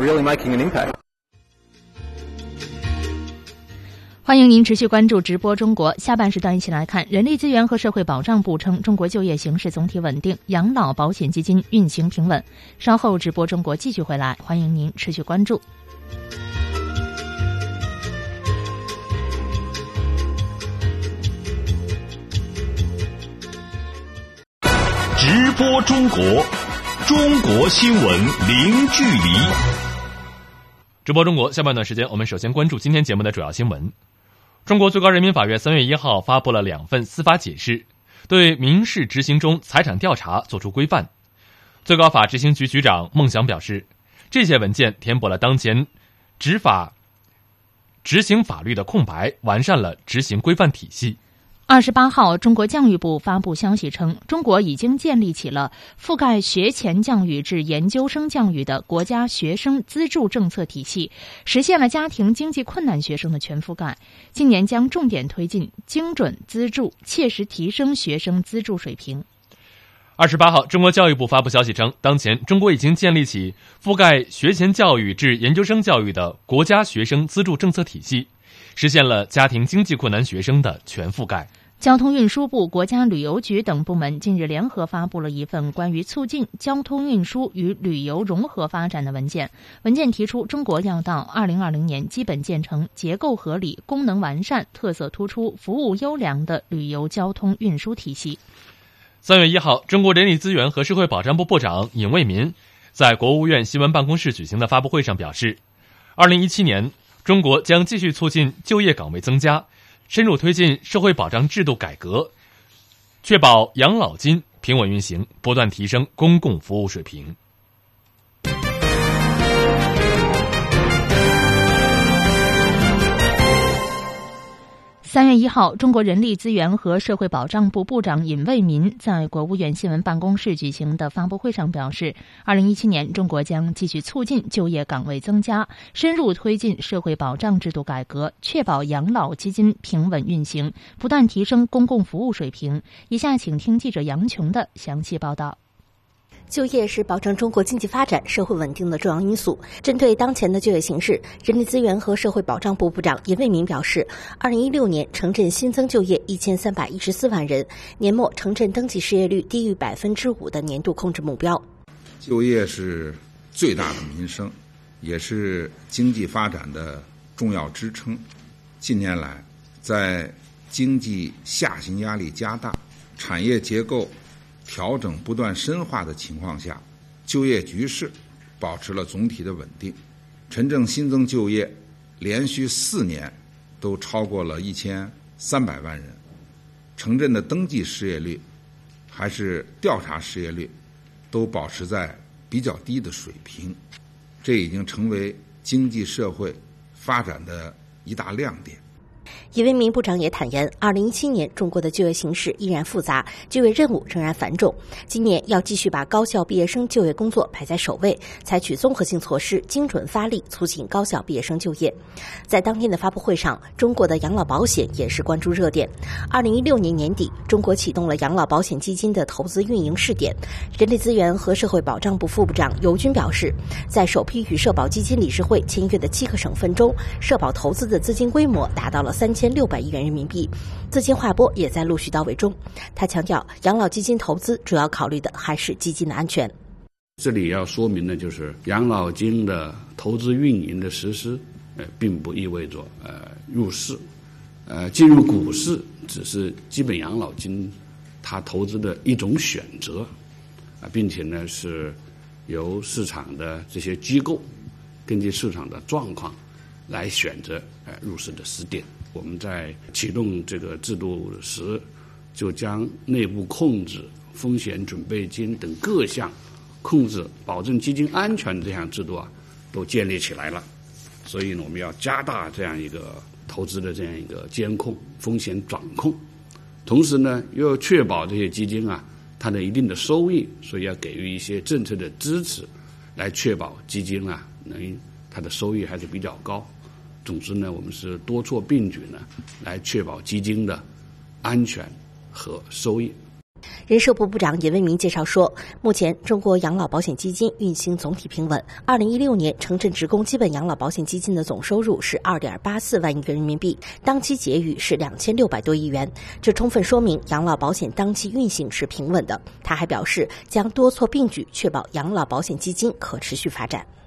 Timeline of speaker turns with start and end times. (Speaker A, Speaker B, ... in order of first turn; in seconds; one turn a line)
Speaker A: 4.2-15.6
Speaker B: 25.2-29.6
Speaker C: 31.0-33.9
Speaker C: 34.6-41.1
Speaker C: 41.8-46.9
Speaker C: 48.0-51.2
Speaker A: 51.7-69.2
Speaker C: 70.2-81.5
Speaker A: 81.8-98.4
Speaker C: 99.2-105.6
Speaker C: 106.2-112.3
Speaker C: 113.2-117.3
Speaker A: 125.0-145.6
Speaker D: 146.5-161.6
Speaker E: 162.2-168.2
Speaker E: 168.8-174.1
Speaker E: 174.7-186.2
Speaker E: 186.9-188.4
Speaker E: 189.1-190.7
Speaker E: 191.3-193.8
Speaker E: 194.4-198.8
Speaker D: 199.5-236.5
Speaker F: 237.2-244.1
Speaker F: 244.7-250.1
Speaker F: 250.8-254.5
Speaker F: 255.1-270.7
Speaker F: 271.2-276.2
Speaker F: 276.8-286.7
Speaker F: 287.2-290.9
Speaker F: 291.4-293.2
Speaker D: 293.9-313.9